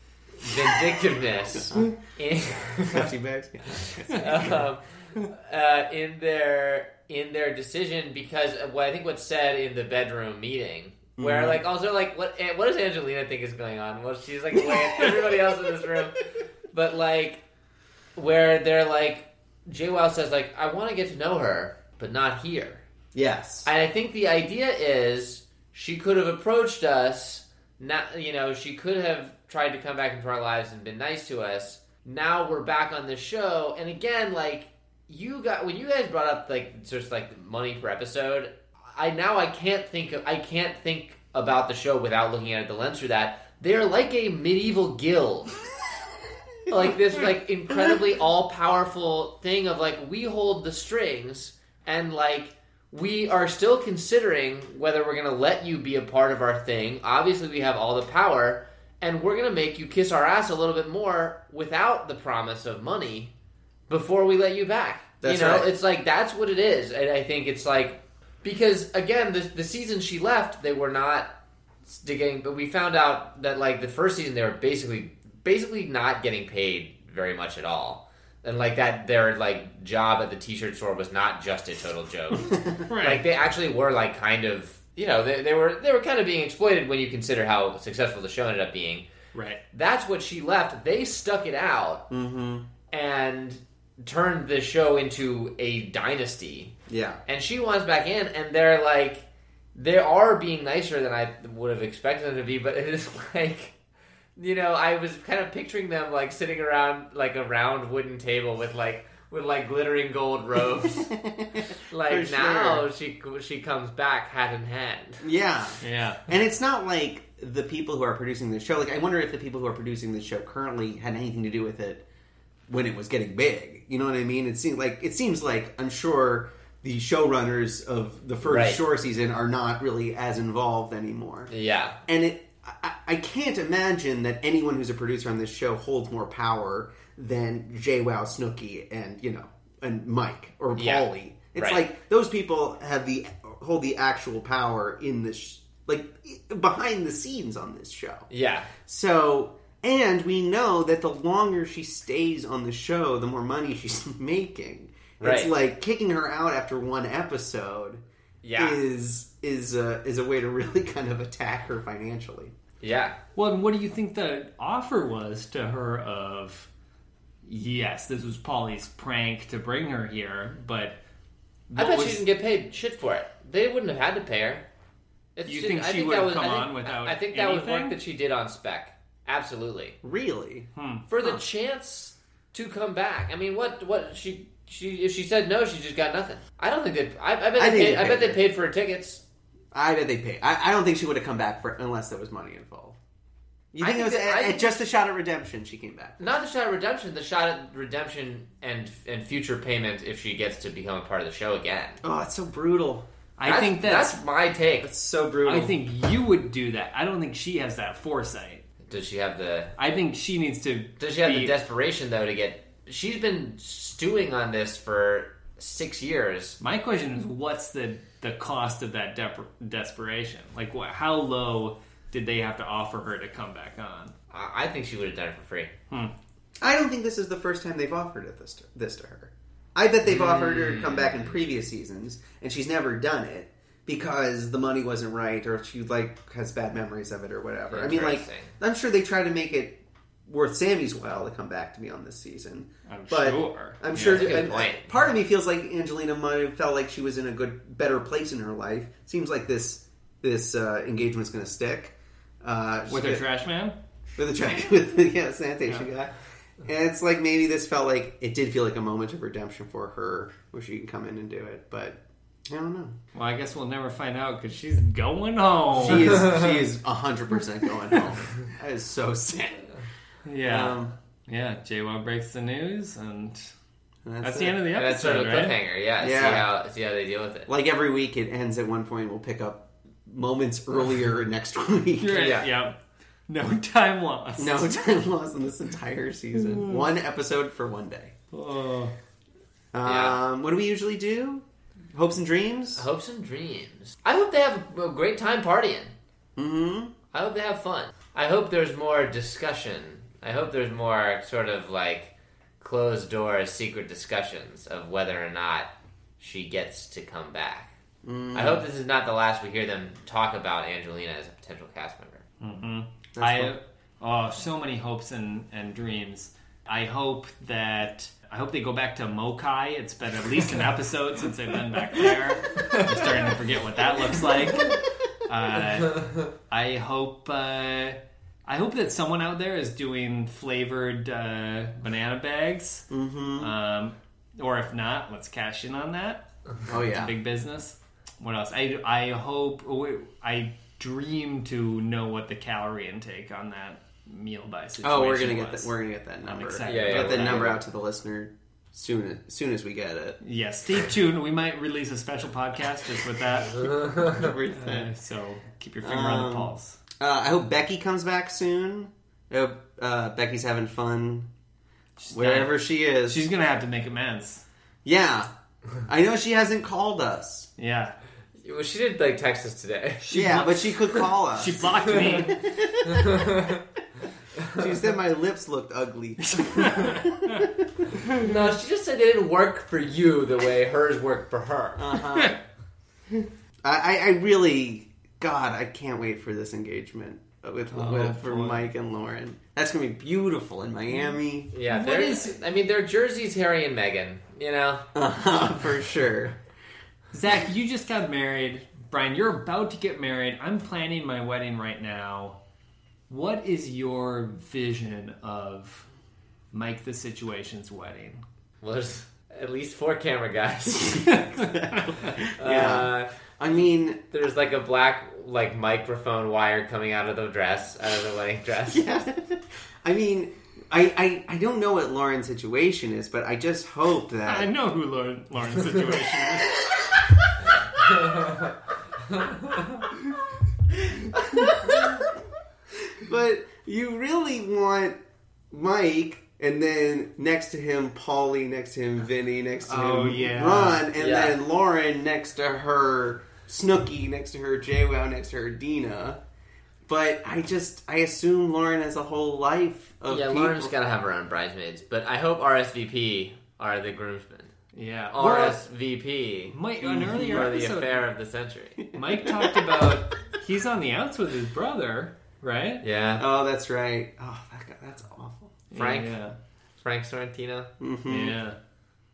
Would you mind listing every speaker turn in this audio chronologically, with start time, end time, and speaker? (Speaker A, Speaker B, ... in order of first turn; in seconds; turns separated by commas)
Speaker A: 0.4-3.1, Speaker B: 1.6-1.9, Speaker B: 2.9-4.6, Speaker A: 3.7-17.4, Speaker B: 11.2-11.6, Speaker B: 14.5-15.5, Speaker A: 18.1-22.8, Speaker B: 23.1-23.7, Speaker A: 23.6-45.6, Speaker A: 46.7-63.3, Speaker A: 63.9-71.3, Speaker B: 65.2-65.7, Speaker A: 71.9-89.0, Speaker C: 82.9-83.2, Speaker C: 89.3-89.6, Speaker A: 89.7-92.0, Speaker B: 92.1-92.7, Speaker A: 92.9-96.8, Speaker B: 96.9-97.2, Speaker A: 97.3-103.7, Speaker A: 104.3-111.1, Speaker B: 110.9-112.8, Speaker A: 111.9-115.2, Speaker B: 115.2-122.0, Speaker C: 115.8-116.2, Speaker B: 122.7-131.5, Speaker A: 128.4-128.8, Speaker A: 131.5-132.0, Speaker B: 132.1-148.3, Speaker A: 140.8-141.8, Speaker A: 148.3-148.7, Speaker B: 148.8-158.0, Speaker A: 155.2-155.5, Speaker A: 158.4-158.8, Speaker B: 158.6-162.5, Speaker A: 162.8-163.2, Speaker C: 163.3-166.7, Speaker C: 167.4-171.0, Speaker C: 171.7-172.2, Speaker A: 171.8-174.7, Speaker A: 175.3-179.9, Speaker C: 175.4-177.9, Speaker B: 180.0-180.7, Speaker C: 180.7-181.1, Speaker A: 181.1-189.2, Speaker B: 187.6-188.4, Speaker B: 189.7-192.9, Speaker B: 193.7-196.2, Speaker A: 193.8-194.8, Speaker A: 196.2-202.0, Speaker B: 202.0-203.1, Speaker C: 203.4-204.2, Speaker A: 203.4-204.9, Speaker B: 204.8-205.8, Speaker C: 205.4-208.6, Speaker A: 208.9-209.7, Speaker C: 209.8-211.5, Speaker A: 211.0-216.6, Speaker C: 216.6-224.1, Speaker A: 224.3-225.7, Speaker B: 226.6-253.3, Speaker A: 230.0-231.4, Speaker A: 237.7-238.5, Speaker C: 242.9-244.3, Speaker A: 243.9-244.9, Speaker C: 252.9-253.8, Speaker B: 254.2-262.9, Speaker C: 263.1-266.3, Speaker B: 265.8-269.8, Speaker C: 270.2-273.5, Speaker B: 270.4-270.9, Speaker B: 274.0-274.7, Speaker C: 274.2-275.5, Speaker A: 274.7-277.5, Speaker B: 276.0-276.5, Speaker B: 277.5-282.3, Speaker C: 282.0-284.8, Speaker A: 282.1-282.5, Speaker B: 284.4-288.1, Speaker C: 288.3-288.9, Speaker B: 289.7-292.9, Speaker A: 289.8-290.2, Speaker A: 292.8-295.9, Speaker B: 296.4-296.9, Speaker A: 297.1-307.7, Speaker B: 308.0-308.6, Speaker A: 308.3-312.2, Speaker C: 312.4-345.7, Speaker B: 313.1-313.6, Speaker B: 332.9-333.5, Speaker B: 336.7-337.1, Speaker B: 344.8-350.2, Speaker C: 346.2-347.6, Speaker A: 346.6-347.6, Speaker C: 350.2-353.8, Speaker B: 353.7-354.9, Speaker C: 354.5-356.8, Speaker B: 355.8-361.3, Speaker C: 362.0-364.4, Speaker B: 362.1-363.2, Speaker B: 364.8-365.3, Speaker B: 365.9-367.5, Speaker C: 367.6-367.9, Speaker A: 368.4-370.1, Speaker C: 370.0-372.4, Speaker B: 370.1-373.4, Speaker A: 372.9-373.6, Speaker B: 374.5-377.9, Speaker C: 376.4-377.0, Speaker A: 378.1-381.9, Speaker B: 381.8-382.4, Speaker B: 383.6-391.5, Speaker C: 387.7-388.7, Speaker A: 391.5-394.8, Speaker C: 391.7-392.4, Speaker B: 394.9-396.4, Speaker C: 397.1-402.4, Speaker C: 403.1-405.9, Speaker C: 406.5-408.2, Speaker A: 408.6-411.3, Speaker C: 411.2-412.1, Speaker B: 411.6-414.0, Speaker A: 412.2-413.1, Speaker A: 414.1-418.8, Speaker B: 418.7-424.5, Speaker C: 424.2-426.6, Speaker B: 431.6-432.1, Speaker B: 432.9-435.0, Speaker B: 435.5-446.2, Speaker C: 439.6-440.9, Speaker A: 441.0-441.4, Speaker B: 446.9-450.7, Speaker A: 450.1-454.5, Speaker C: 454.7-455.6, Speaker A: 455.1-458.9, Speaker C: 456.5-458.0, Speaker B: 456.8-457.5, Speaker B: 458.8-459.6, Speaker C: 458.9-462.8, Speaker A: 462.8-463.2, Speaker B: 463.2-465.6, Speaker C: 465.7-466.3, Speaker A: 465.7-466.2, Speaker A: 466.8-467.7, Speaker B: 467.8-468.4, Speaker C: 468.1-468.6